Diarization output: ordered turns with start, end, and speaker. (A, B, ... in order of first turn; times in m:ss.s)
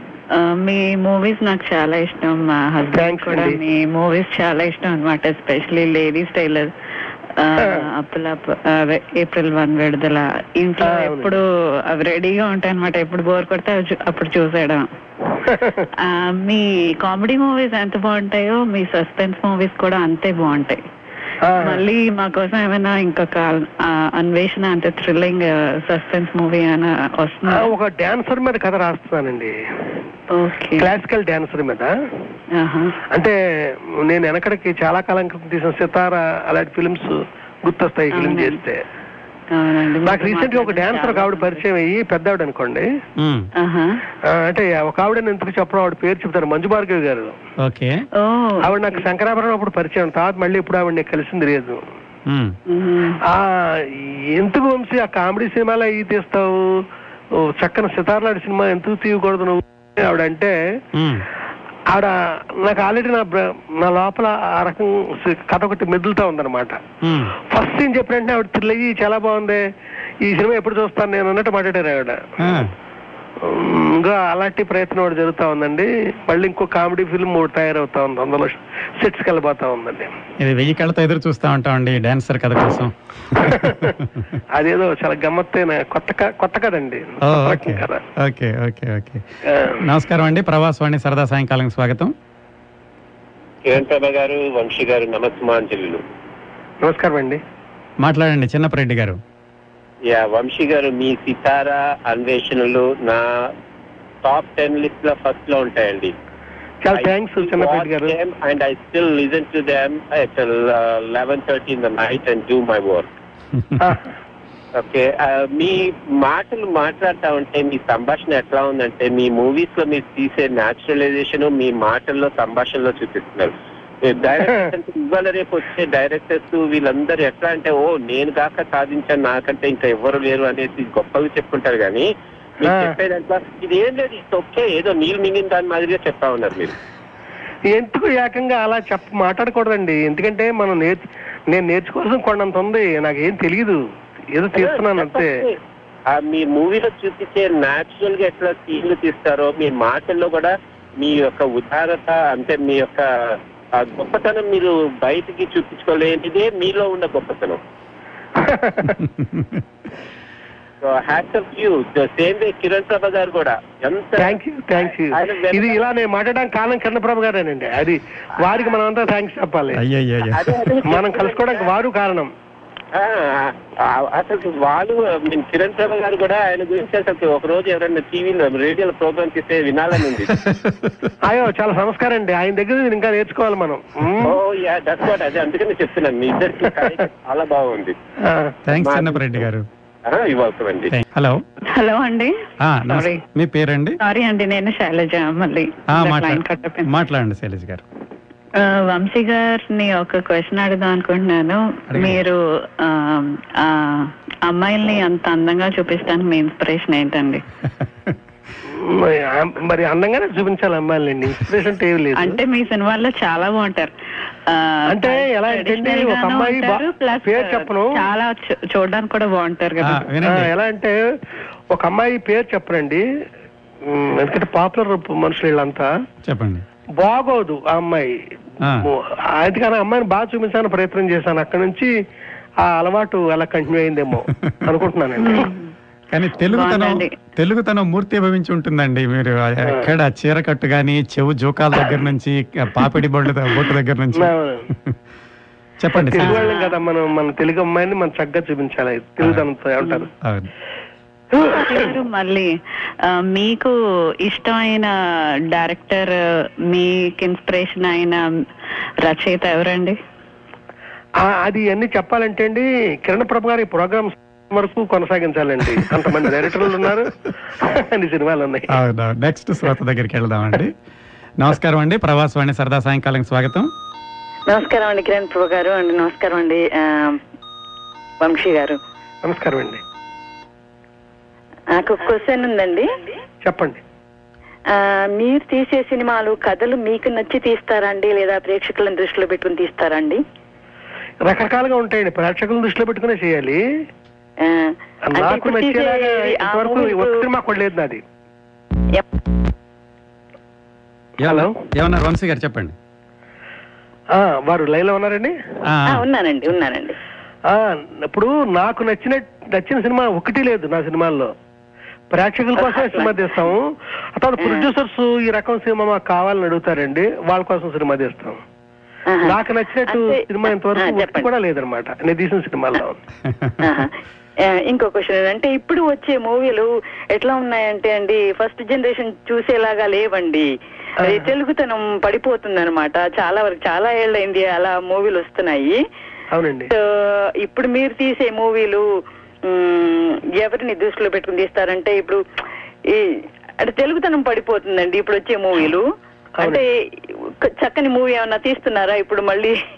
0:00.4-0:06.7 A
0:02.9-0:03.6 B
0:07.4-0:14.9 A
0:10.8-0:11.4 B
0:15.4-0:15.9 B
0:16.0-0:20.8 A
0:21.4-0:21.8 B
0:21.6-0:27.7 A
0:27.5-0:29.5 B
0:30.3-0:30.9 A
0:30.8-0:31.9 B
0:32.6-0:33.0 A
0:33.1-0:38.8 B
0:38.1-0:38.6 A
0:39.5-0:41.6 A
0:40.0-0:42.9 B
0:43.2-0:43.5 C
0:43.6-0:44.0 A
0:44.2-0:47.4 B
0:47.6-0:48.0 C
0:48.2-0:49.0 A
0:48.6-0:51.8 B
0:52.3-0:52.5 C
0:52.7-0:53.2 A
0:53.2-0:56.8 B
0:57.4-1:00.5 B
1:01.0-1:01.2 C
1:01.9-1:06.8 B
1:07.0-1:07.3 C
1:07.5-1:09.6 B
1:10.2-1:12.3 B
1:12.4-1:12.7 C
1:13.4-1:20.1 B
1:20.4-1:24.0 C
1:23.4-1:24.0 B
1:24.5-1:28.0 B
1:27.2-1:29.2 C
1:29.4-1:29.8 B
1:29.8-1:32.1 C
1:33.6-1:36.0 D
1:36.8-1:37.4 B
1:38.0-1:39.2 C
1:40.1-1:43.5 D
1:44.2-1:46.1 D
1:46.8-1:48.1 B
1:46.9-1:53.1 D
1:53.8-1:54.1 B
1:54.8-2:03.5 D
2:04.0-2:12.1 D
2:04.4-2:04.7 B
2:12.6-2:16.7 D
2:12.6-2:13.0 B
2:17.7-2:23.8 B
2:24.3-2:25.4 B
2:24.5-2:25.6 D
2:26.1-2:37.6 D
2:38.4-2:38.9 B
2:38.9-2:39.6 C
2:40.8-2:44.4 D
2:44.2-2:49.8 B
2:45.1-2:45.8 D
2:49.8-2:50.5 C
2:50.3-2:51.6 D
2:50.8-2:52.3 B
2:52.9-3:00.3 D
3:00.3-3:01.1 C
3:01.2-3:04.4 B
3:04.2-3:08.0 D
3:08.2-3:08.6 B
3:08.7-3:09.6 C
3:08.7-3:09.4 D
3:10.1-3:10.9 D
3:10.9-3:11.4 C
3:11.7-3:12.3 A
3:12.6-3:14.0 C
3:12.9-3:13.2 A
3:14.0-3:16.9 A
3:15.9-3:17.8 C
3:18.6-3:27.4 A
3:21.9-3:22.2 C
3:28.6-3:32.4 B
3:32.2-3:33.9 A
3:34.5-3:40.0 A
3:34.9-3:38.0 B
3:39.8-3:40.5 C
3:40.2-3:41.0 B
3:41.7-3:43.0 B
3:43.8-3:45.9 B
3:46.2-3:46.6 C
3:47.0-3:48.2 B
3:48.8-3:51.9 B
3:52.6-3:55.5 B
3:55.2-3:55.7 A
3:56.1-4:04.9 C
3:56.5-3:57.1 A
4:04.2-4:04.6 B
4:05.8-4:06.5 C
4:05.9-4:10.1 B
4:06.2-4:06.8 A
4:10.2-4:10.5 C
4:11.3-4:12.0 B
4:11.4-4:12.5 A
4:13.1-4:14.9 A
4:15.5-4:16.1 A
4:16.7-4:18.3 A
4:19.0-4:20.0 A
4:21.2-4:28.7 B
4:28.7-4:30.7 C
4:31.4-4:33.7 C
4:34.5-4:37.2 E
4:38.2-4:38.8 E
4:39.2-4:39.8 B
4:41.7-4:43.1 E
4:43.4-4:43.8 B
4:44.7-4:50.2 E
4:51.2-4:53.6 B
4:54.4-4:57.2 E
4:55.1-4:58.0 B
5:01.2-5:02.7 C
5:01.2-5:01.5 B
5:04.1-5:05.3 B
5:05.7-5:06.0 C
5:05.9-5:07.0 E
5:07.5-5:11.3 B
5:12.1-5:18.4 B
5:12.6-5:13.4 E
5:14.4-5:14.6 E
5:19.1-5:21.3 E
5:19.2-5:23.0 B
5:23.6-5:23.9 E
5:24.4-5:30.5 E
5:31.0-5:31.3 B
5:31.0-5:35.8 E
5:36.3-5:36.7 B
5:36.7-5:38.8 E
5:39.4-5:42.2 E
5:42.9-5:45.8 E
5:46.4-5:46.7 E
5:47.4-5:49.6 E